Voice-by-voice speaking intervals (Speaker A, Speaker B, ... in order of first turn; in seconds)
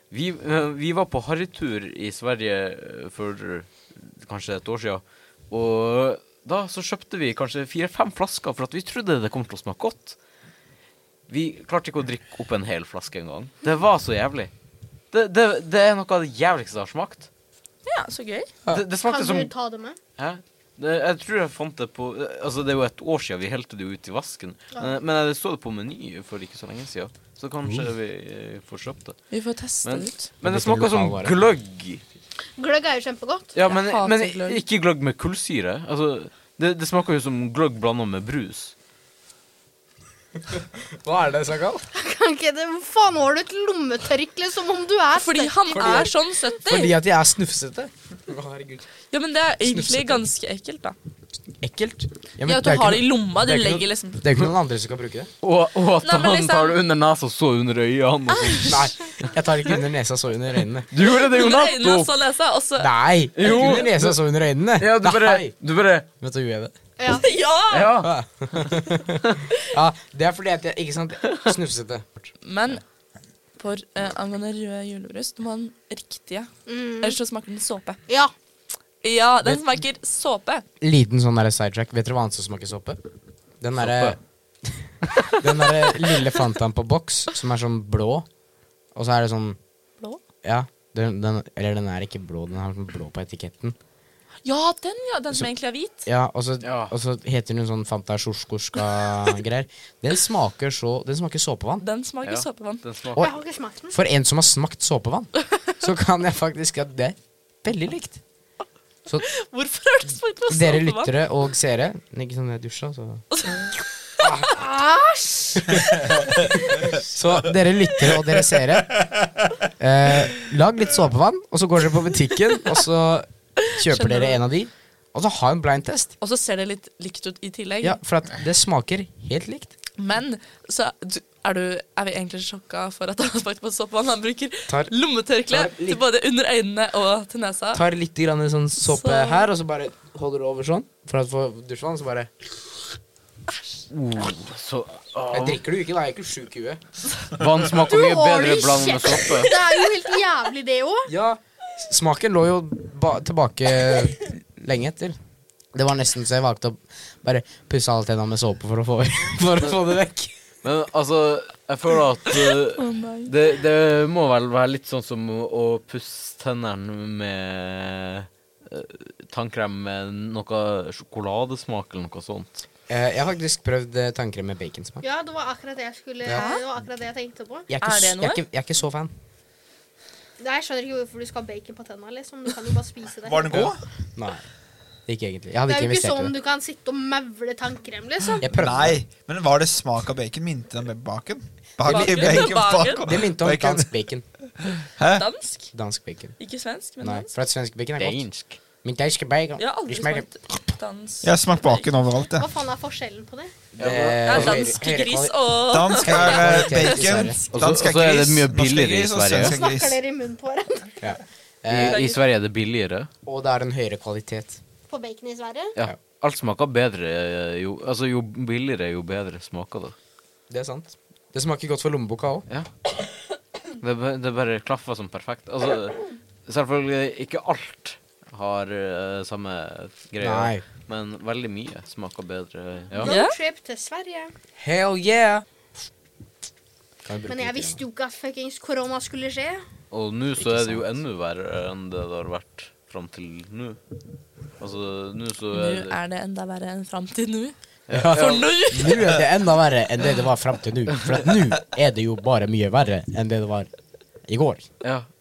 Speaker A: 0.1-10.2, 11.3-14.5, 15.1-17.3, 18.7-19.5, 20.2-29.2, 29.8-32.0, 33.5-38.7, 55.4-58.9, 60.9-62.1, 63.3-64.2, 64.8-66.1, 67.7-68.1, 83.8-84.2, 96.6-96.9, 102.2-103.3, 143.9-145.6, 147.3-149.5, 160.6-172.6, 198.0-198.6, 203.8-204.7, 207.5-209.6, 211.7-213.1, 215.8-219.9, 223.8-233.1, 239.9-243.8, 244.6-245.9, 247.9-248.5
Speaker B: 17.8-18.5, 29.3-30.3, 33.6-34.6, 45.1-46.9, 49.1-51.0, 52.4-54.2, 56.0-56.8, 58.3-58.9, 61.0-62.9, 67.0-68.0, 72.4-72.8, 73.6-78.0, 79.0-80.6, 94.4-96.1, 101.8-102.8, 109.2-111.1, 113.3-113.8, 123.8-124.4, 126.2-128.0, 130.0-137.8, 138.8-139.5, 162.8-163.3, 176.3-176.6, 177.8-178.4, 191.8-193.1, 195.1-195.7, 196.4-197.3, 199.6-201.8, 204.2-207.3, 211.8-212.2, 233.0-233.3, 245.5-247.5, 248.1-249.0
Speaker C: 19.0-20.0, 32.6-33.5, 41.9-46.1, 67.0-67.2, 76.7-77.2, 103.2-104.0, 114.4-115.9, 147.9-151.1, 175.0-177.7, 180.4-183.7, 185.7-188.5, 202.4-203.5, 209.3-211.1, 214.9-215.8, 232.9-234.3, 237.3-239.6
Speaker D: 30.4-31.4, 40.5-41.9, 45.7-46.1, 46.6-48.9, 49.6-50.2, 51.6-55.3, 58.6-60.9, 62.8-65.5, 66.2-66.7, 68.0-72.3, 80.8-83.0, 83.6-88.2, 88.9-89.6, 90.4-93.8, 96.0-101.8, 103.9-108.2, 110.5-113.2, 114.2-114.6, 115.6-119.0, 119.8-126.1, 127.8-129.7, 135.5-136.0, 137.7-142.3, 145.3-146.8, 151.1-155.2, 155.7-160.3, 172.9-175.1, 177.7-179.1, 183.5-184.4, 185.1-186.3, 188.4-189.0, 191.9-192.5, 193.1-194.2, 195.7-196.3, 197.0-198.2, 198.8-200.3, 203.8-205.3, 205.9-207.4, 211.0-212.0, 213.2-214.6, 220.5-222.4, 230.2-230.6, 234.6-235.4, 237.0-237.8, 240.3-240.9, 247.9-253.7, 254.3-254.7
Speaker E: 183.2-183.8, 188.5-193.9, 194.6-195.3, 201.2-202.5, 205.7-210.0